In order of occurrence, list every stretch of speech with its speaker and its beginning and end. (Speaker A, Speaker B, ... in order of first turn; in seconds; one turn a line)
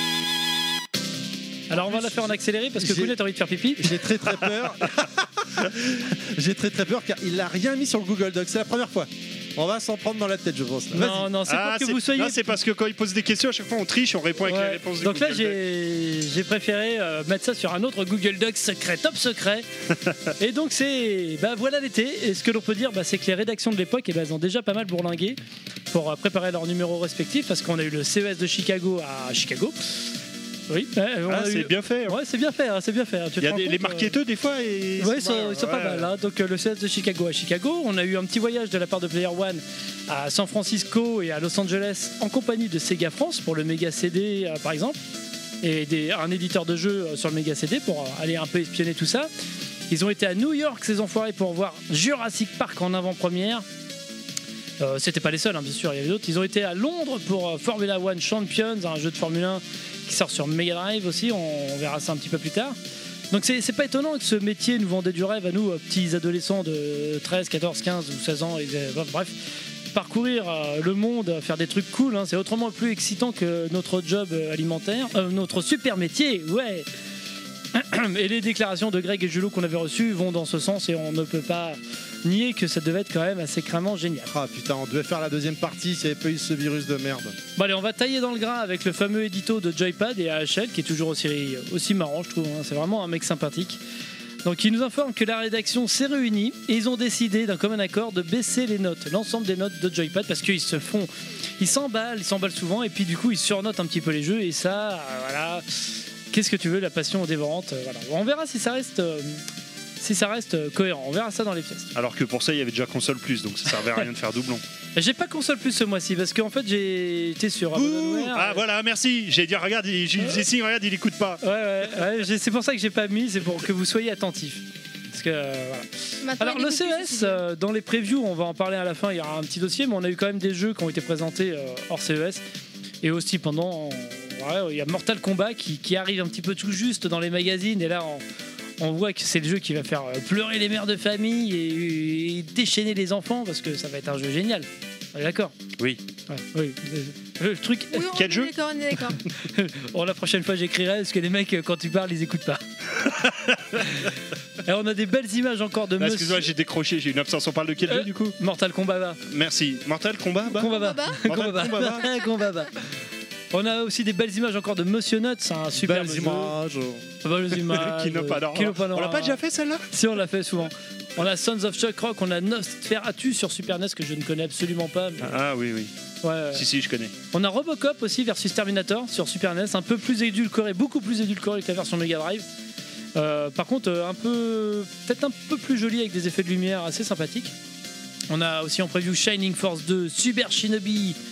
Speaker A: 1.7-3.9
Speaker B: 1.7-3.2
Speaker B: 3.8-11.3
Speaker A: 10.9-12.5
Speaker C: 11.5-15.6
Speaker A: 14.4-19.7
Speaker A: 20.4-25.4
Speaker A: 25.9-29.8
Speaker A: 30.7-34.1
Speaker C: 31.3-32.2
Speaker C: 33.4-36.1
Speaker A: 35.0-45.0
Speaker B: 35.2-35.7
Speaker A: 45.6-49.3
Speaker A: 49.9-53.6
Speaker A: 54.8-62.8
Speaker A: 63.3-76.9
Speaker A: 77.7-84.3
Speaker B: 84.3-87.4
Speaker A: 87.6-93.8
Speaker A: 94.4-109.4
Speaker A: 110.0-111.9
Speaker C: 112.0-114.6
Speaker A: 115.0-118.6
Speaker B: 117.7-118.4
Speaker C: 118.3-121.4
Speaker A: 121.4-125.9
Speaker D: 126.2-127.4
Speaker A: 126.4-132.4
Speaker A: 133.0-138.2
Speaker A: 138.8-145.6
Speaker A: 146.3-148.1
Speaker D: 147.9-149.2
Speaker C: 148.1-148.5
Speaker A: 149.4-152.6
Speaker C: 153.0-153.8
Speaker A: 153.8-154.1
Speaker A: 154.6-156.5
Speaker C: 156.0-158.4
Speaker A: 157.9-159.2
Speaker C: 159.2-160.7
Speaker A: 160.5-162.7
Speaker D: 160.6-161.2
Speaker B: 161.3-162.1
Speaker A: 163.5-166.6
Speaker B: 165.8-167.1
Speaker A: 167.2-169.4
Speaker C: 167.5-169.9
Speaker A: 169.9-175.4
Speaker C: 175.2-175.9
Speaker A: 176.2-176.6
Speaker C: 176.5-177.1
Speaker A: 177.3-182.5
Speaker A: 183.2-187.5
Speaker A: 188.3-191.2